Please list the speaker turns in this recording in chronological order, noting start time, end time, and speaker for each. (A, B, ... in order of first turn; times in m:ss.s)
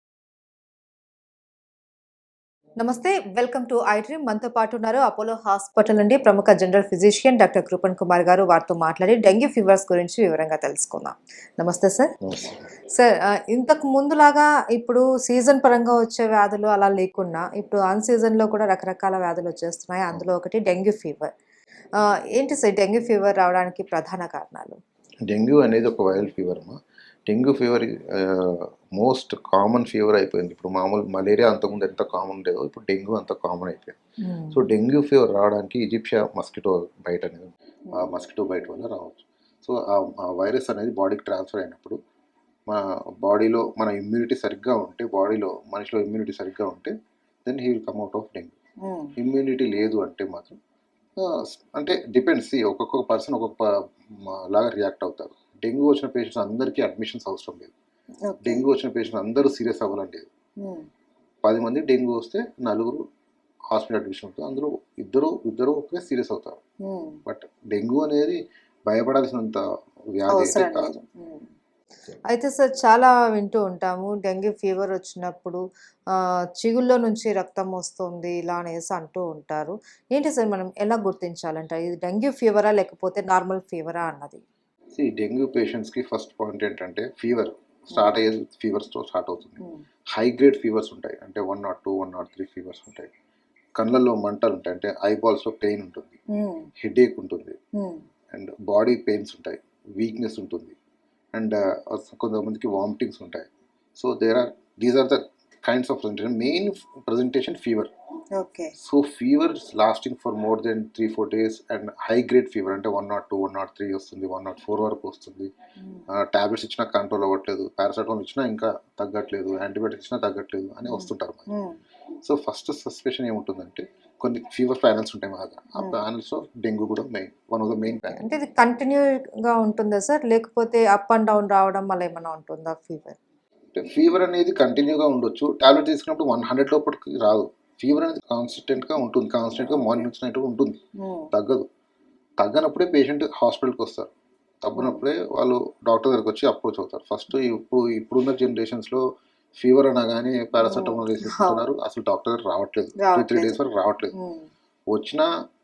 0:02.8-0:12.1 A
0:12.2-0:12.6 B
0:12.9-0:21.3 A
0:22.0-0:24.8 A
0:25.3-0:34.0 B
0:34.2-0:34.6 A
0:34.5-0:42.0 B
0:42.7-0:46.9 B
0:47.4-0:48.6 B
0:48.8-0:49.1 A
0:49.2-0:50.6 B
0:51.2-0:57.7 B
0:58.2-0:58.6 A
0:58.4-1:00.3 B
1:00.6-1:00.9 A
1:01.4-1:03.0 B
1:03.7-1:06.6 B
1:06.8-1:07.2 A
1:07.3-1:09.6 B
1:10.2-1:10.9 B
1:10.3-1:11.5 A
1:12.3-1:15.6 A
1:16.6-1:24.4 A
1:24.9-1:29.6 B
1:27.9-1:28.2 A
1:30.1-1:33.1 B
1:33.8-1:36.2 B
1:36.3-1:36.7 A
1:36.8-1:37.6 B
1:37.8-1:38.1 A
1:38.3-1:40.8 B
1:41.3-1:47.9 B
1:48.3-1:48.7 A
1:48.8-1:55.5 B
1:55.8-1:56.1 A
1:56.1-2:01.4 B
2:00.9-2:01.8 A
2:02.2-2:08.3 B
2:08.0-2:13.2 A
2:13.7-2:20.8 B
2:21.0-2:21.3 A
2:21.3-2:21.6 B
2:22.4-2:24.1 B
2:24.6-2:29.0 B
2:24.8-2:25.0 A
2:29.6-2:34.1 B
2:30.6-2:31.6 A
2:33.0-2:33.6 A
2:34.1-2:34.5 A
2:34.9-2:35.3 B